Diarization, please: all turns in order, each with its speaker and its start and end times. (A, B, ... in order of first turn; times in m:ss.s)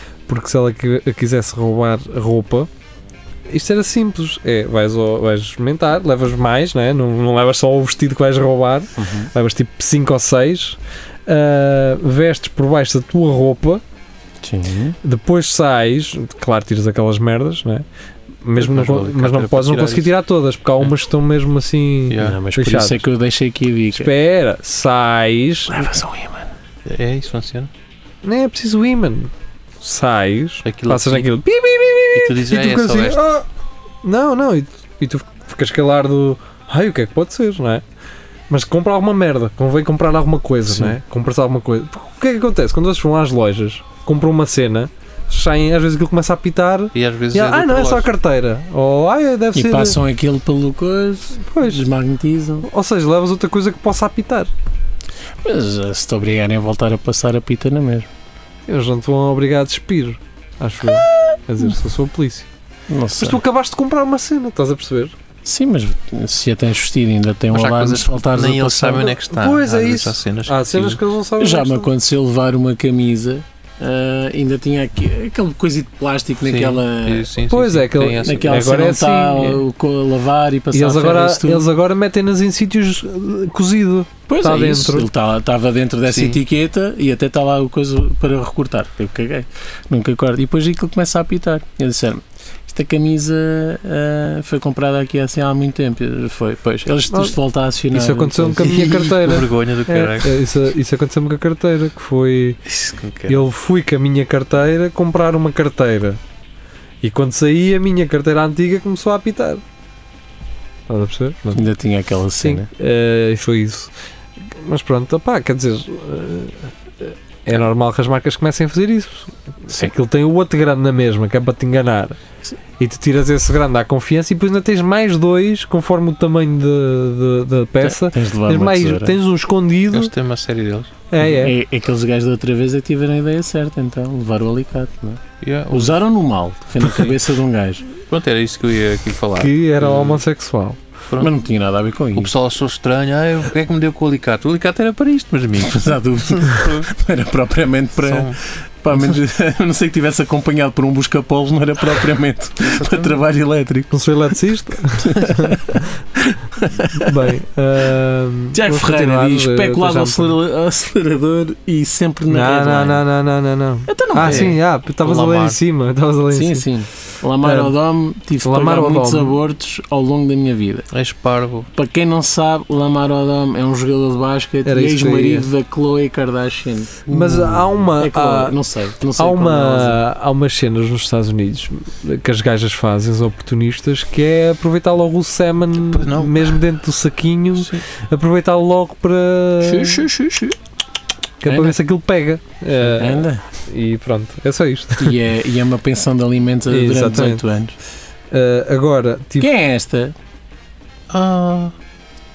0:00.3-0:02.7 A
0:03.5-0:13.8 A
0:09.0-0:09.3 B
0:14.4-0:15.0 B
0:15.0-0:17.8 A
0:18.4-0:23.0 A
0:18.6-0:20.1 C
0:22.1-0:22.4 C
0:22.2-0:24.1 B
0:23.9-0:25.9 A
0:25.7-0:26.5 B
0:26.8-0:27.7 C
0:28.2-0:33.5 A
0:30.6-0:31.3 C
0:32.1-0:33.2 C
0:34.0-0:37.8 A
0:38.5-0:50.0 A
0:40.7-0:41.0 B
0:46.9-0:48.1 C
0:49.5-0:52.7 B
0:51.5-0:51.9 A
0:52.6-0:54.5 A
0:55.4-0:58.1 B
0:58.7-1:02.5 A
1:02.9-1:03.4 B
1:03.2-1:05.2 A
1:05.4-1:09.2 B
1:07.5-1:11.0 C
1:09.2-1:11.9 A
1:11.4-1:17.3 B
1:16.4-1:18.7 C
1:17.5-1:19.6 A
1:18.2-1:21.7 B
1:20.7-1:25.1 A
1:24.3-1:39.1 B
1:26.1-1:26.4 C
1:37.1-1:37.4 A
1:37.9-1:42.6 A
1:38.6-1:40.4 C
1:42.7-1:43.4 C
1:43.3-1:46.2 A
1:47.0-1:49.6 A
1:50.9-1:51.7 A
1:51.5-1:52.7 B
1:52.4-2:02.2 A
2:02.8-2:10.1 A
2:07.8-2:09.2 B
2:09.9-2:10.9 C
2:11.1-2:11.6 A
2:11.2-2:17.9 B
2:15.4-2:16.0 C
2:18.1-2:20.2 C
2:19.4-2:20.8 A
2:21.2-2:22.3 B
2:22.2-2:26.9 C
2:25.7-2:33.9 B
2:28.0-2:28.4 C
2:32.7-2:33.1 C
2:33.9-2:35.8 A
2:35.0-2:37.2 B
2:37.0-2:40.4 A
2:38.5-2:43.0 B
2:42.3-2:46.7 A
2:43.9-2:44.5 B
2:44.2-2:45.6 C
2:46.3-2:50.9 B
2:47.4-2:47.7 A
2:48.4-2:49.4 A
2:50.9-2:51.7 C
2:51.8-2:57.5 B
2:54.6-2:55.5 A
2:57.1-2:58.6 A
2:57.1-2:57.6 C
2:58.0-3:00.0 B
2:59.2-3:10.1 A
3:05.7-3:06.6 C
3:07.6-3:07.8 C
3:09.6-3:10.6 B
3:11.4-3:15.2 A
3:11.5-3:11.8 B
3:12.8-3:13.4 B
3:15.0-3:17.8 B
3:16.7-3:17.4 A
3:18.3-3:19.5 A
3:19.4-3:20.2 B
3:21.1-3:21.7 C